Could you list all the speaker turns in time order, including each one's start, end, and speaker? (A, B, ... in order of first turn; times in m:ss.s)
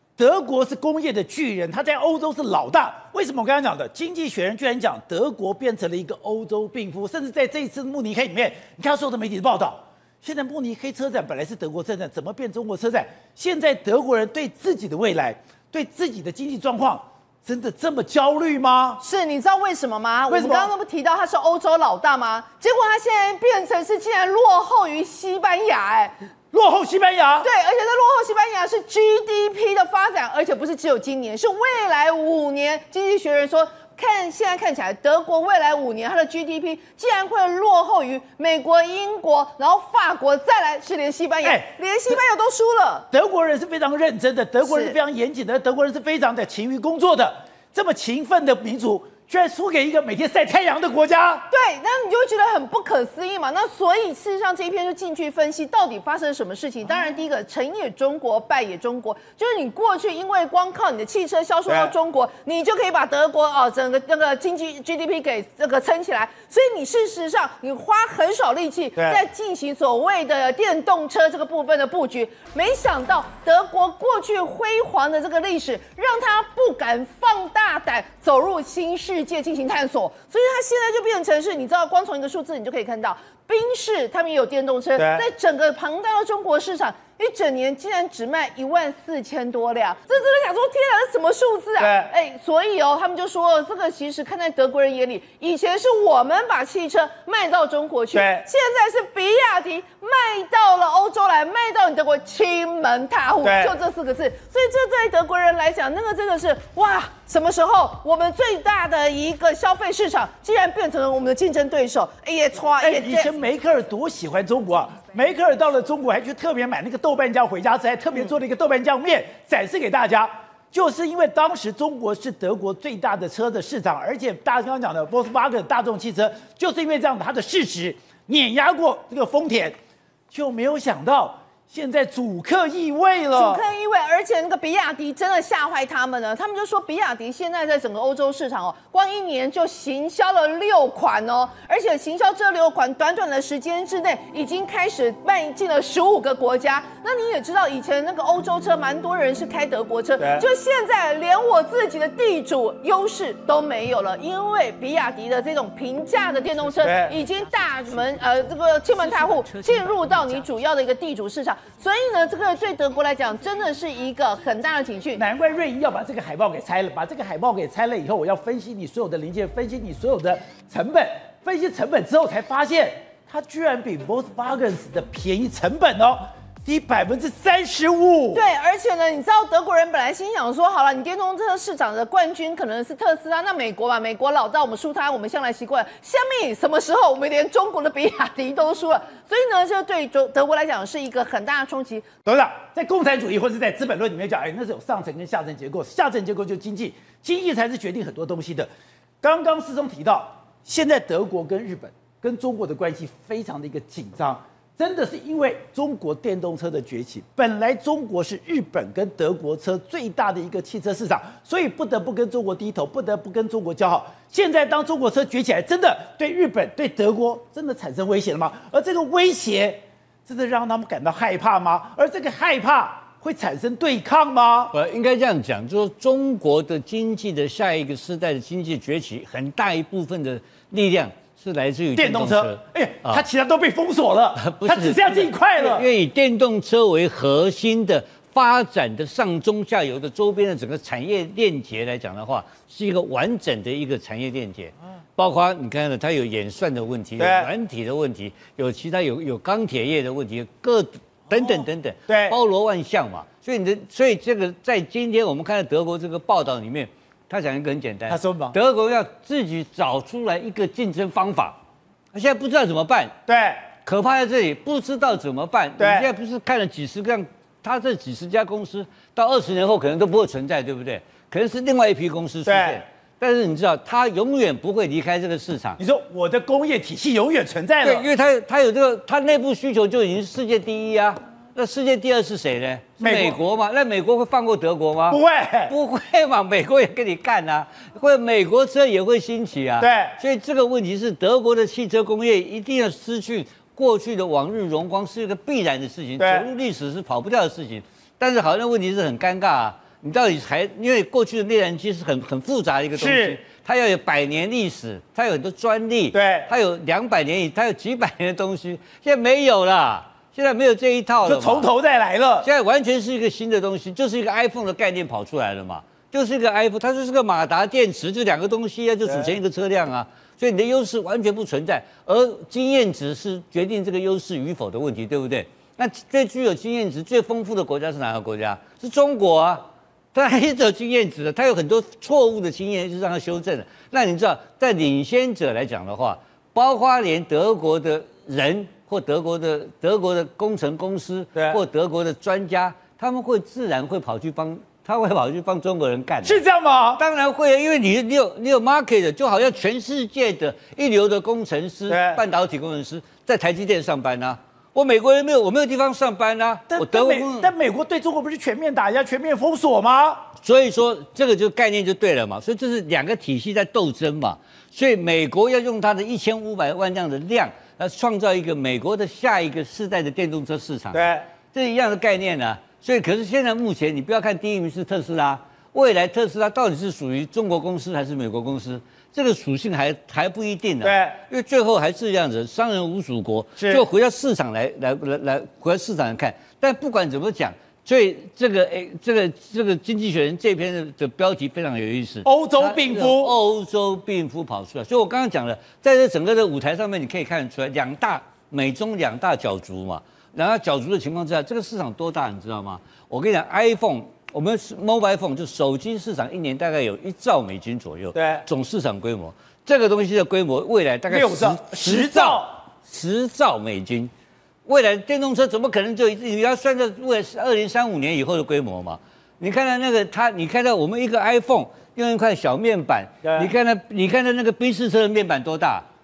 0:00.2-0:19.0 A
0:19.0-0:26.2 B
0:20.3-0:20.7 A
0:26.5-0:27.5 A
0:27.4-0:43.1 B
0:41.4-0:42.2 A
0:43.1-0:51.5 A
0:44.6-0:45.0 B
0:51.5-1:53.3 B
1:01.7-1:01.9 A
1:09.0-1:09.2 A
1:25.0-1:25.3 A
1:31.8-1:32.1 A
1:38.1-1:38.5 A
1:43.4-1:43.7 A
1:52.8-2:09.8 A
2:10.3-2:13.6 A
2:13.3-2:45.2 B
2:30.2-2:30.5 A
2:36.8-2:37.2 A
2:45.2-2:58.4 A
2:58.3-3:12.1 B
3:12.2-3:18.7 A
3:19.2-3:44.7 A
3:44.7-3:53.2 C
3:52.0-3:55.9 A
3:54.4-4:21.6 C
4:07.2-4:07.5 A
4:11.3-4:12.4 A
4:18.1-4:18.6 A
4:22.1-4:23.1 C
4:23.3-4:23.7 A
4:23.8-4:35.8 C
4:25.8-4:26.1 A
4:32.4-4:32.8 A
4:35.8-4:38.1 A
4:37.8-5:11.7 C
4:43.0-4:43.4 A
4:45.1-4:45.7 A
4:49.8-4:50.2 A
4:56.2-4:56.5 A
5:03.0-5:03.4 A
5:06.1-5:06.5 A
5:11.2-5:12.5 A
5:12.4-5:46.4 C
5:19.1-5:19.3 A
5:46.2-5:47.0 A
5:47.0-5:57.5 C
5:51.9-5:52.2 A
5:56.7-6:00.3 A
6:00.4-6:54.1 C
6:10.9-6:11.3 A
6:20.8-6:21.2 A
6:23.6-6:23.8 A
6:32.2-6:33.3 A
6:48.1-6:48.4 A
6:51.1-6:52.5 A
6:54.7-7:05.9 C
7:03.2-7:03.5 A